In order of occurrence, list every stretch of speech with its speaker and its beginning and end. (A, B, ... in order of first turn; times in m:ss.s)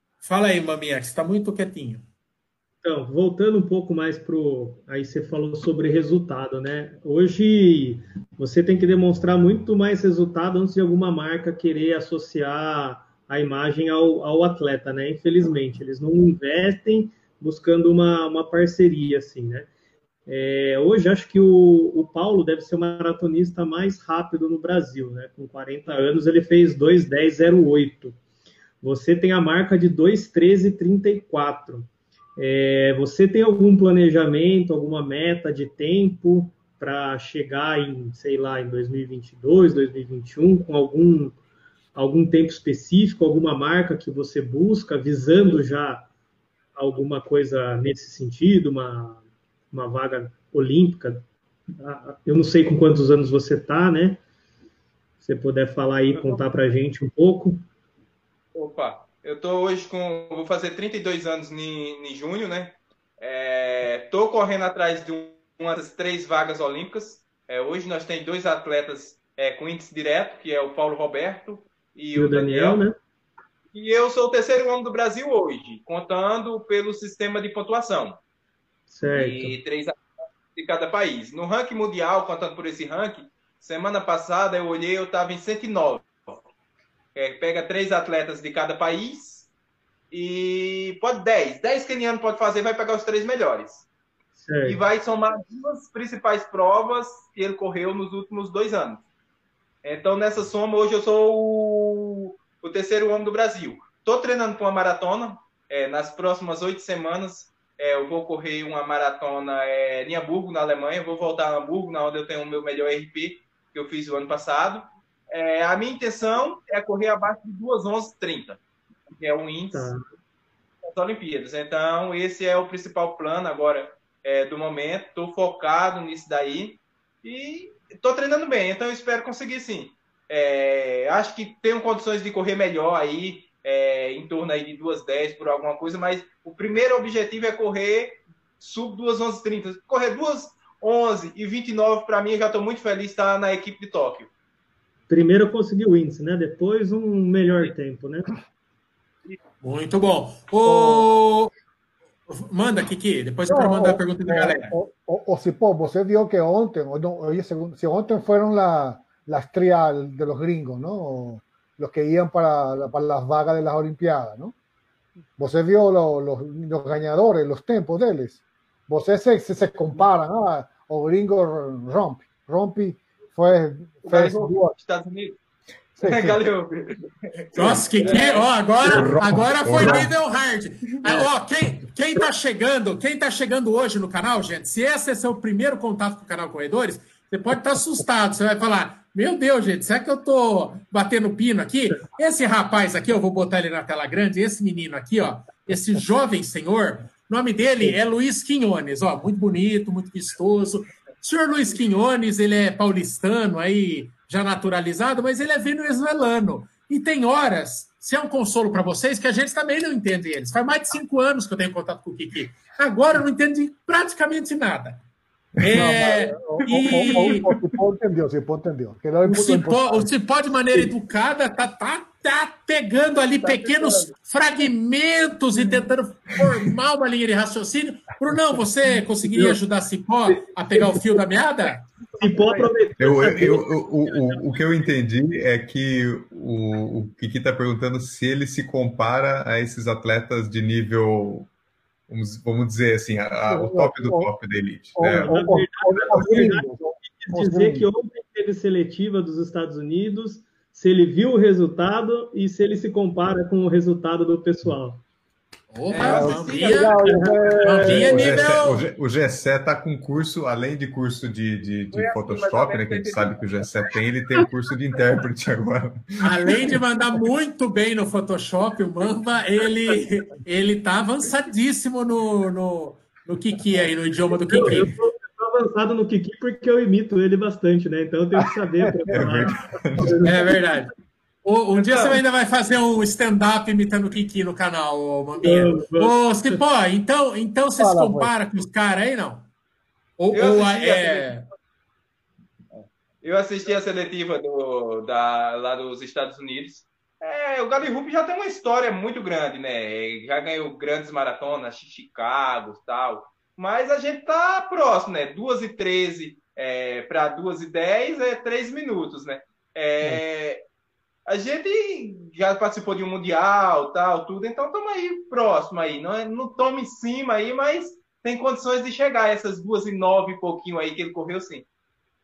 0:00.2-0:02.0 A
0:02.8-0:19.7 B
0:20.3-0:28.2 B
0:28.8-0:41.4 B
0:41.9-0:46.1 B
0:46.7-0:51.2 B
0:51.8-0:54.2 B
0:55.2-0:57.6 B
0:58.5-1:12.8 C
1:12.1-1:13.0 B
1:13.7-1:18.2 C
1:18.9-1:19.6 B
1:19.1-1:20.0 C
1:20.5-1:26.4 C
1:27.1-1:29.5 C
1:30.1-1:33.9 C
1:34.4-1:34.8 B
1:34.6-1:39.0 C
1:39.8-1:58.6 C
1:59.1-1:59.9 C
1:59.7-2:00.0 B
2:00.8-2:24.3 C
2:25.1-2:28.3 B
2:29.6-2:31.5 A
2:30.6-2:31.1 D
2:32.3-2:34.7 A
2:33.5-2:44.5 D
2:45.4-2:54.7 D
2:54.0-2:55.4 C
2:56.0-2:56.4 D
2:56.0-2:58.5 C
2:57.5-3:35.0 A
2:58.8-3:00.1 E
3:35.6-3:37.5 A
3:35.7-3:40.1 D
3:39.2-3:51.9 A
3:43.4-3:44.1 C
3:52.0-3:52.7 C
3:52.2-3:54.4 B
3:53.0-4:01.5 E
4:02.1-4:05.3 E
4:03.5-4:04.3 D
4:04.9-4:07.9 D
4:05.0-4:15.0 B
4:15.7-4:17.0 A
4:15.9-4:17.0 C
4:16.0-4:18.5 D
4:17.0-4:18.1 B
4:17.6-4:18.8 A
4:17.9-4:26.2 E
4:21.9-4:23.4 C
4:26.2-4:34.9 A
4:34.5-4:40.6 B
4:38.4-4:39.1 D
4:39.1-4:40.3 E
4:40.2-4:40.9 A
4:41.4-4:49.5 A
4:41.7-4:42.2 C
4:45.4-4:46.6 B
4:47.8-4:48.3 D
4:50.2-4:51.4 A
4:50.3-4:51.3 C
4:52.7-5:10.6 C
5:11.3-5:21.7 C